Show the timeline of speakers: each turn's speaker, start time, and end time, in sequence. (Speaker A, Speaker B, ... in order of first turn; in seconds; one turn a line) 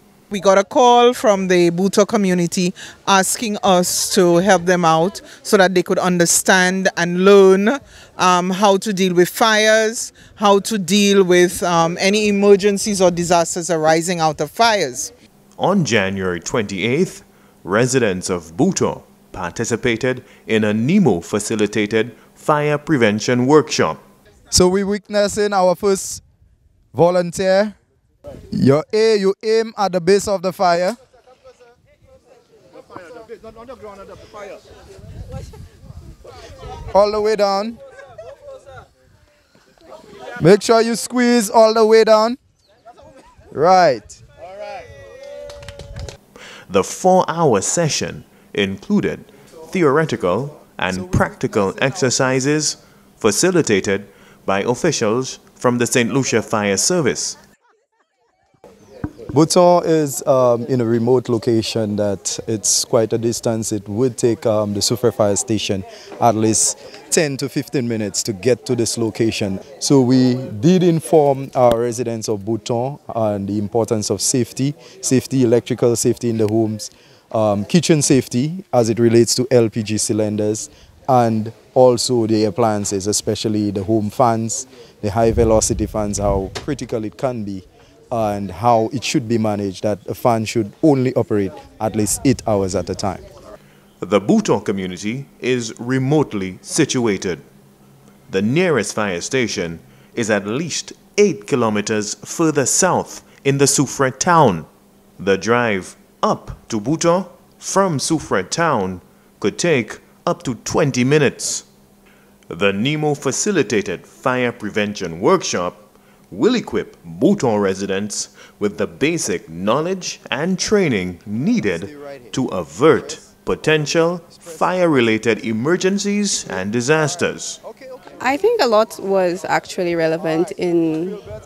Speaker A: 0.3-15.1
Speaker B: 15.6-24.0
Speaker C: 24.5-26.2
Speaker C: 26.9-27.8
Speaker C: 28.5-31.0
Speaker C: 36.9-37.8
Speaker C: 40.4-42.4
Speaker C: 43.5-44.2
Speaker B: 46.7-57.4
Speaker C: 59.3-93.2
Speaker B: 94.0-97.4
Speaker B: 98.3-111.7
Speaker B: 112.5-127.6
Speaker C: 121.6-122.3
Speaker C: 124.3-124.7
Speaker C: 127.6-128.3
Speaker D: 128.2-131.2
Speaker C: 130.9-131.4